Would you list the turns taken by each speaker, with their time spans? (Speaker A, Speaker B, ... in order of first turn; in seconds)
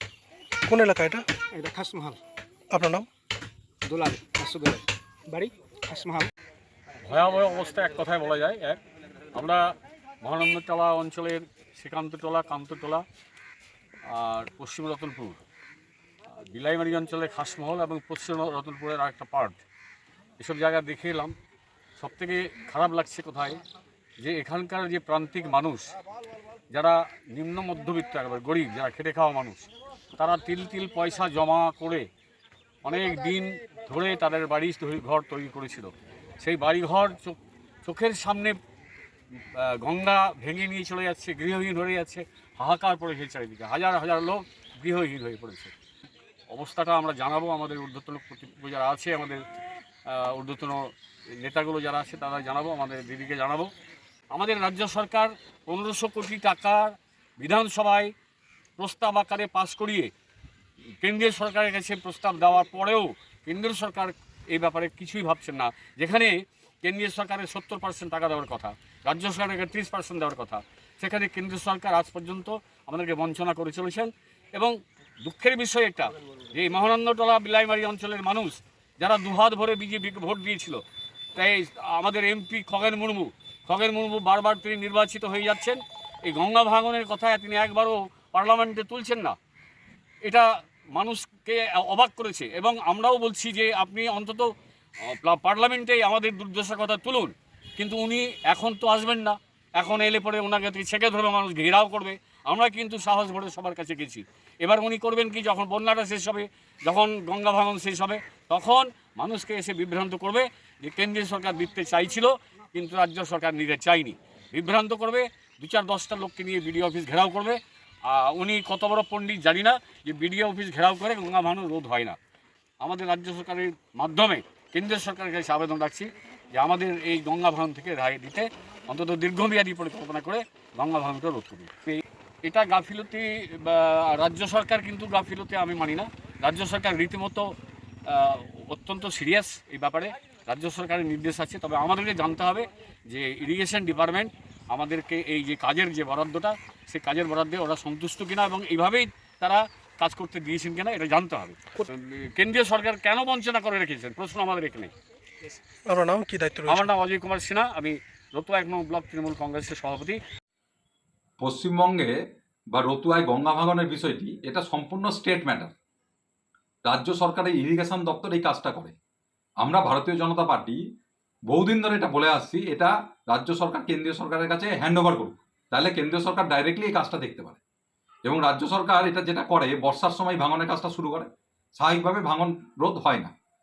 Speaker A: 0.7-1.3, 2.7-3.1, 155.8-156.9
Speaker B: 1.5-2.2, 3.8-6.3
Speaker C: 7.1-8.8, 9.3-13.0, 14.1-15.4, 16.5-19.6, 20.4-21.3, 22.0-23.6, 24.2-25.9, 26.7-32.1, 32.8-38.6, 39.5-45.7, 46.5-49.4, 50.1-53.7, 54.3-58.1, 58.8-60.1, 61.0-80.8, 81.3-89.3, 90.2-94.5, 95.0-122.2, 122.8-137.5, 138.1-154.9, 156.7-160.2
Speaker D: 161.4-162.1, 162.7-165.7, 166.8-168.9, 169.6-170.8, 171.5-177.6, 178.2-183.3